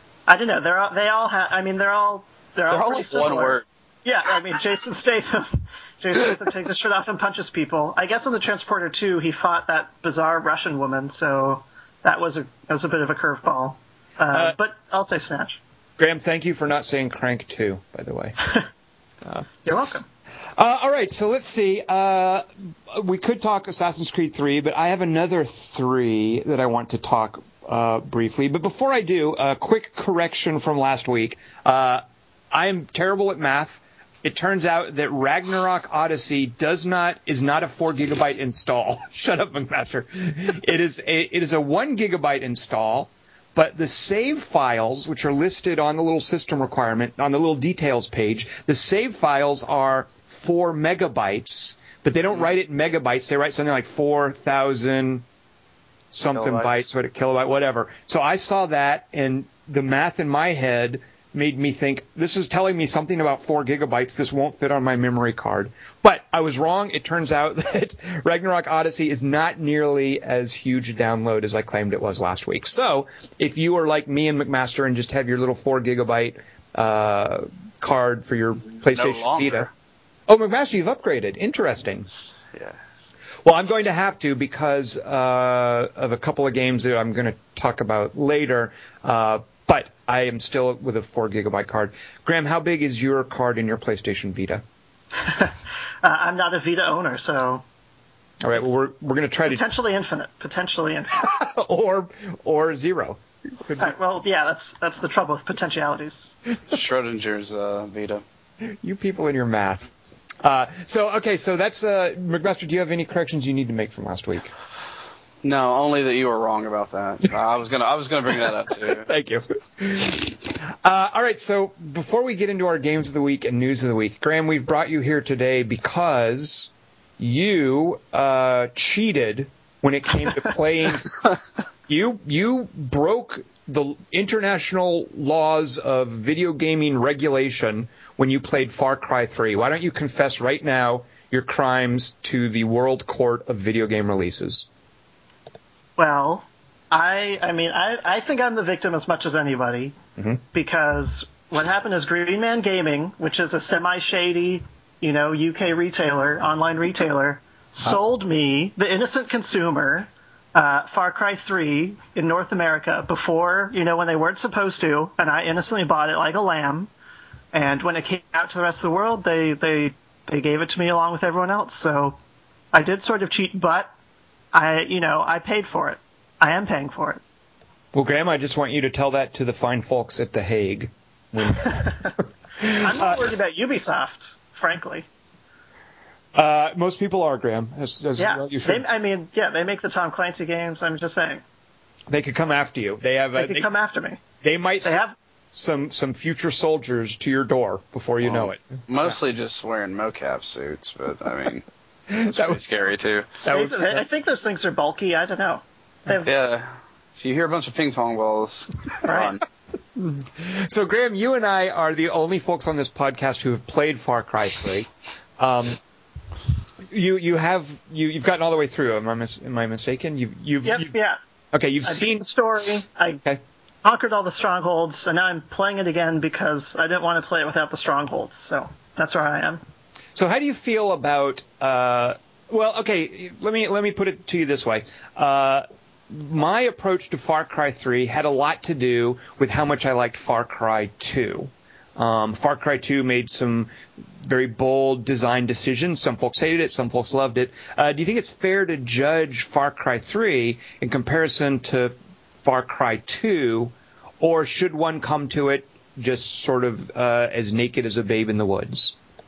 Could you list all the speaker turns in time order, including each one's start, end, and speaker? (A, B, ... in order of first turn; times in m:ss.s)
0:00.3-0:15.6 A
0:02.7-0:03.6 B
0:16.0-0:18.5 C
0:19.6-0:20.0 A
0:20.6-0:55.2 C
0:56.1-1:19.7 C
0:56.3-0:56.8 B
1:18.8-1:19.7 B
1:20.3-1:22.1 C
1:22.5-1:22.8 B
1:23.4-1:34.6 C
1:35.2-1:37.6 A
1:38.4-1:39.6 C
1:39.5-1:41.2 A
1:41.1-1:43.9 C
1:43.8-1:46.3 A
1:46.7-1:48.2 B
1:48.6-1:54.5 C
1:55.4-1:59.0 B
1:58.9-2:11.2 C
2:11.9-2:24.7 C
2:26.0-2:29.9 A
2:30.5-2:46.9 A
2:47.5-2:52.2 A
2:52.7-2:53.9 A
2:54.5-2:57.2 A
2:57.9-3:03.2 C
3:02.6-3:05.0 A
3:06.3-3:08.8 C
3:08.2-3:11.4 A
3:12.1-3:13.7 C
3:13.4-3:14.2 A
3:14.4-3:15.0 C
3:14.8-3:15.1 A
3:15.5-3:18.8 C
3:18.2-3:21.6 B
3:22.1-3:22.6 C
3:22.2-3:23.3 B
3:23.4-3:24.0 C
3:23.5-3:26.3 A
3:26.2-3:29.4 B
3:29.0-3:29.3 A
3:29.9-3:35.8 C
3:36.9-3:40.9 C
3:40.6-3:41.2 A
3:41.5-3:42.2 C
3:41.8-3:43.2 A
3:43.8-3:49.6 A
3:50.2-4:03.7 C
4:04.2-4:19.0 C